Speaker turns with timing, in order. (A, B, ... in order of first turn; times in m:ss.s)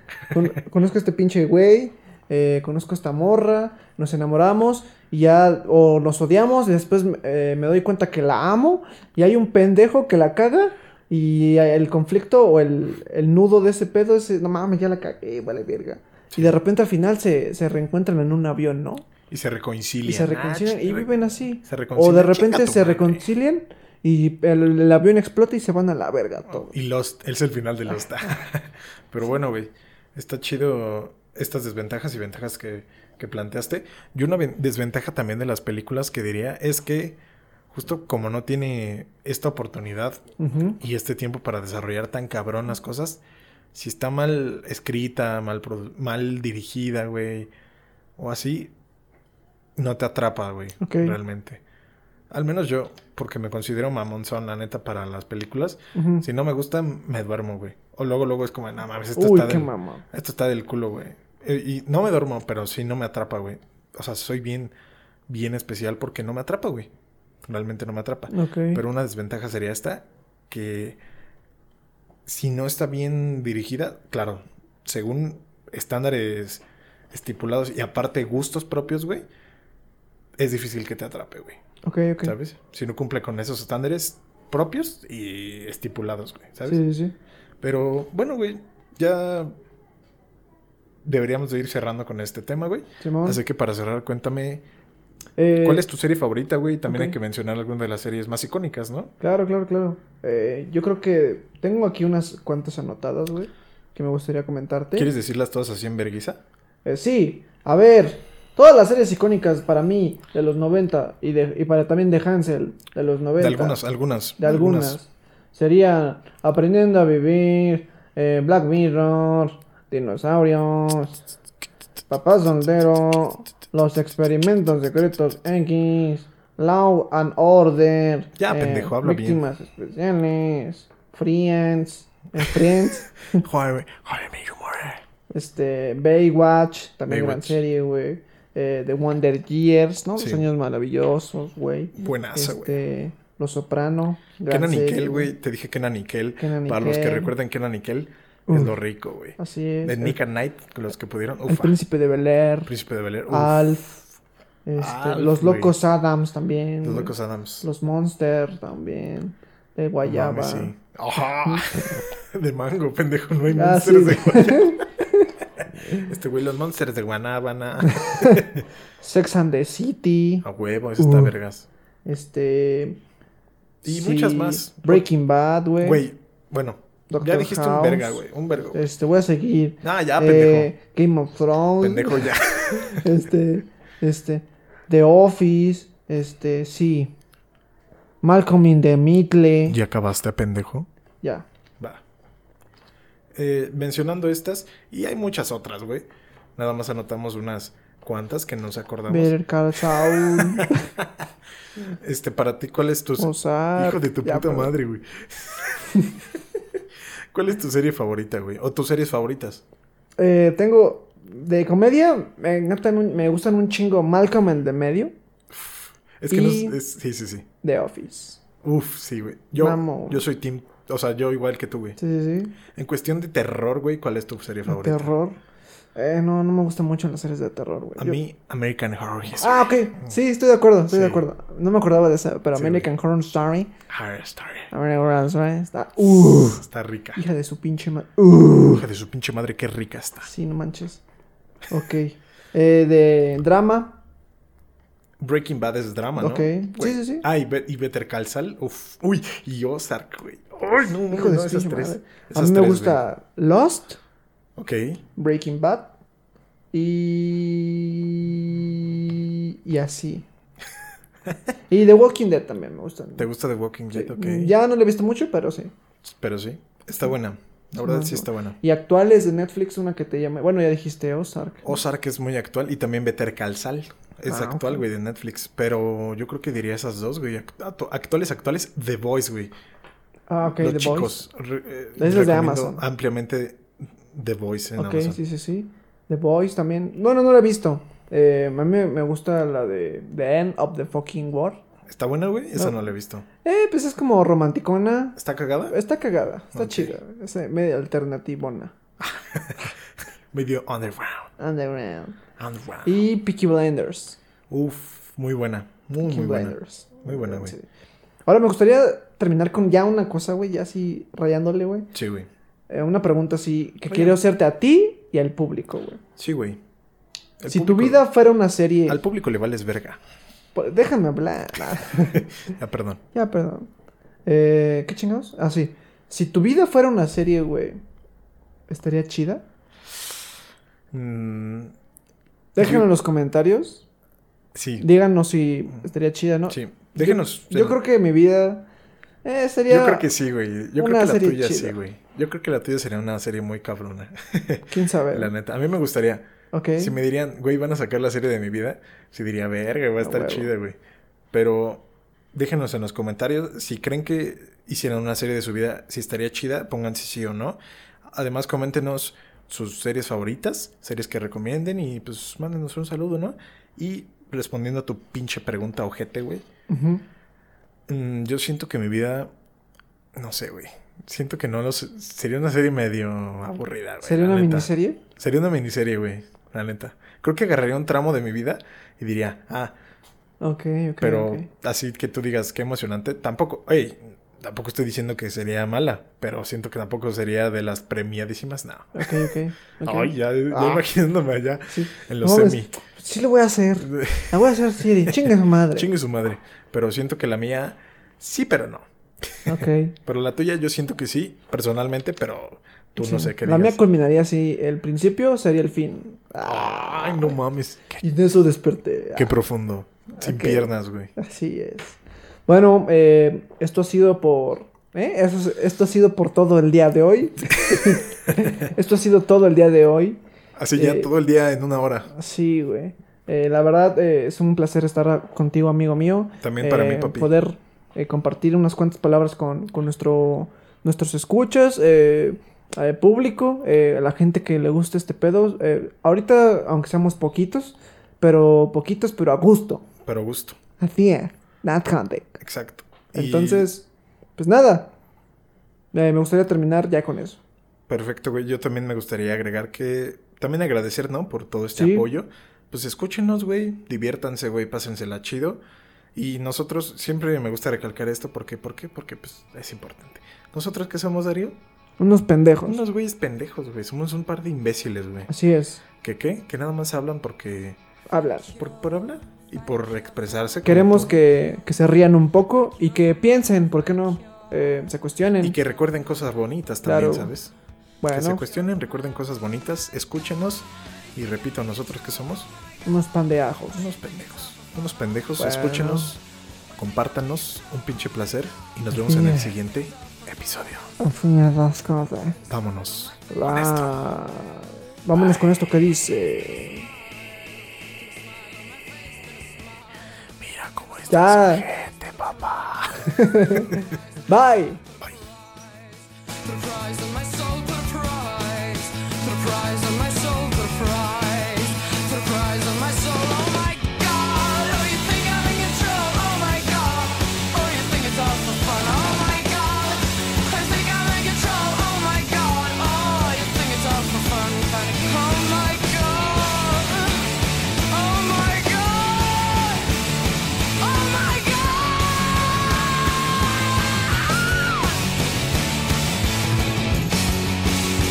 0:00.3-0:19.1 A
0:19.3-0:21.1 B
0:20.0-0:26.7 A
0:21.6-0:23.2 B
0:26.5-0:37.2 B
0:37.7-0:40.2 B
0:40.4-0:40.8 A
0:40.8-0:43.2 B
0:43.7-0:47.5 B
0:48.2-0:48.7 B
0:49.8-0:51.6 B
0:50.8-0:51.2 A
0:52.3-1:04.7 B
0:55.9-0:56.3 A
0:59.2-1:00.0 A
1:05.3-1:06.9 B
1:07.5-1:11.0 B
1:08.3-1:08.8 A
1:12.3-1:19.3 B
1:20.4-1:21.6 B
1:21.8-1:22.4 A
1:22.2-1:26.8 B
1:26.6-1:27.2 A
1:27.6-1:29.5 B
1:31.0-1:34.6 B
1:33.0-1:33.4 A
1:35.4-1:35.9 A
1:35.6-1:39.1 B
1:36.9-1:37.2 A
1:39.2-1:45.1 A
1:45.0-1:46.4 B
1:46.8-1:53.8 A
1:53.4-1:55.0 B
1:54.4-2:01.2 A
2:02.1-2:13.4 A
2:08.4-2:09.4 B
2:13.3-2:15.0 B
2:15.3-2:25.3 A
2:17.1-2:17.6 B
2:20.2-2:20.4 B
2:22.0-2:22.8 B
2:24.5-2:31.8 B
2:26.4-2:27.3 A
2:28.5-2:28.8 A
2:29.4-2:30.2 A
2:31.5-2:32.7 A
2:32.7-2:33.9 B
2:33.3-2:34.0 A
2:34.6-2:40.7 A
2:34.8-2:35.8 B
2:36.8-2:37.7 B
2:40.0-2:44.8 B
2:43.5-2:45.3 A
2:45.9-2:48.7 B
2:47.9-2:48.4 A
2:49.0-2:50.4 A
2:50.4-2:51.7 B
2:51.0-2:51.3 A
2:52.0-2:53.0 A
2:53.8-2:56.0 A
2:53.8-2:55.1 B
2:55.8-2:58.8 B
2:57.1-3:02.3 A
2:59.8-3:00.7 B
3:01.8-3:03.1 B
3:02.9-3:07.1 A
3:08.2-3:09.8 A
3:09.7-3:10.9 B
3:13.4-3:21.1 B
3:19.1-3:20.8 A
3:22.0-3:26.0 B
3:23.2-3:24.7 A
3:27.3-3:29.6 B
3:30.2-3:35.1 A
3:35.5-3:37.5 B
3:36.3-3:36.8 A
3:37.6-3:38.4 A
3:38.6-3:42.0 B
3:39.6-3:40.2 A
3:42.0-3:42.6 A
3:42.7-3:45.1 B
3:44.7-3:45.4 A
3:46.0-3:48.2 A
3:48.0-3:50.1 B
3:49.4-3:53.7 A
3:50.9-3:51.2 B
3:52.6-3:52.9 B
3:53.9-3:54.7 B
3:54.7-3:58.8 A
3:56.6-3:57.2 B
3:58.7-4:00.3 B
4:00.2-4:01.0 A
4:01.7-4:04.0 A
4:05.2-4:13.0 B
4:06.2-4:07.3 A
4:11.1-4:14.0 A
4:14.6-4:15.0 B
4:15.2-4:15.9 A
4:16.7-4:20.3 A
4:21.7-4:23.3 A
4:23.2-4:24.5 B
4:23.9-4:25.7 A
4:26.0-4:28.6 B
4:27.8-4:31.8 A
4:31.6-4:39.5 B
4:34.3-4:34.9 A
4:40.3-4:41.2 A
4:40.6-4:45.2 B
4:42.0-4:42.8 A
4:44.8-4:51.6 A
4:51.9-4:53.3 B
4:53.4-4:58.7 A
4:55.2-4:55.8 B
4:56.5-4:57.0 B
4:59.0-4:59.8 B
5:00.3-5:01.3 B
5:01.4-5:02.2 A
5:02.4-5:03.0 B
5:02.8-5:04.2 A
5:04.5-5:07.6 B
5:06.0-5:07.7 A
5:08.3-5:11.9 A
5:11.9-5:12.3 B
5:12.7-5:16.0 A
5:16.2-5:16.6 B
5:17.4-5:18.0 B
5:17.5-5:19.0 A
5:18.9-5:20.0 B
5:20.6-5:22.2 A
5:22.1-5:23.0 B
5:23.1-5:23.7 A
5:24.3-5:27.8 A
5:28.7-5:29.4 A
5:30.9-5:31.8 B
5:32.6-5:33.8 A
5:32.6-5:32.9 B
5:34.6-5:34.9 B
5:34.8-5:38.7 A
5:36.5-5:37.8 B
5:39.2-5:40.1 A
5:39.7-5:50.8 B
5:40.8-5:41.8 A
5:44.7-5:45.3 A
5:46.5-5:47.0 A
5:50.0-5:50.5 A
5:51.3-5:57.6 B
5:58.1-6:06.4 B
6:06.7-6:07.0 A
6:07.9-6:09.3 B
6:10.2-6:19.7 B
6:14.0-6:15.0 A
6:20.4-6:21.5 A
6:21.0-6:29.3 B
6:29.0-6:30.9 A
6:29.8-6:32.8 B
6:31.7-6:35.9 A
6:33.8-6:43.8 B
6:39.5-6:39.9 A
6:43.0-6:47.4 A
6:46.4-6:48.0 B
6:48.0-6:49.4 A
6:49.2-6:51.1 B
6:50.2-7:00.2 A
7:00.6-7:02.1 B
7:00.8-7:01.1 A
7:02.1-7:19.9 A
7:06.4-7:07.3 B
7:20.0-7:20.6 B
7:20.8-7:22.4 A
7:22.4-7:23.7 B
7:23.1-7:24.9 A
7:25.9-7:27.4 A
7:27.9-7:35.6 B
7:31.8-7:32.1 A
7:36.2-7:41.6 B
7:42.0-7:42.8 A
7:42.7-7:45.3 B
7:45.3-7:45.8 A
7:46.0-7:47.8 B
7:48.1-7:48.6 A
7:48.6-7:51.2 B
7:50.6-7:55.6 A
7:55.4-7:57.5 B
7:56.8-7:57.3 A
7:58.0-7:58.4 A
7:58.1-8:02.5 B
8:02.8-8:03.9 A
8:03.8-8:06.2 B
8:05.4-8:06.2 A
8:06.8-8:10.9 B
8:08.9-8:09.5 A
8:11.0-8:12.4 A
8:12.5-8:13.9 B
8:13.3-8:16.9 A
8:20.4-8:24.0 B
8:21.1-8:21.7 A
8:23.0-8:24.8 A
8:26.3-8:50.0 C
8:50.8-8:55.1 C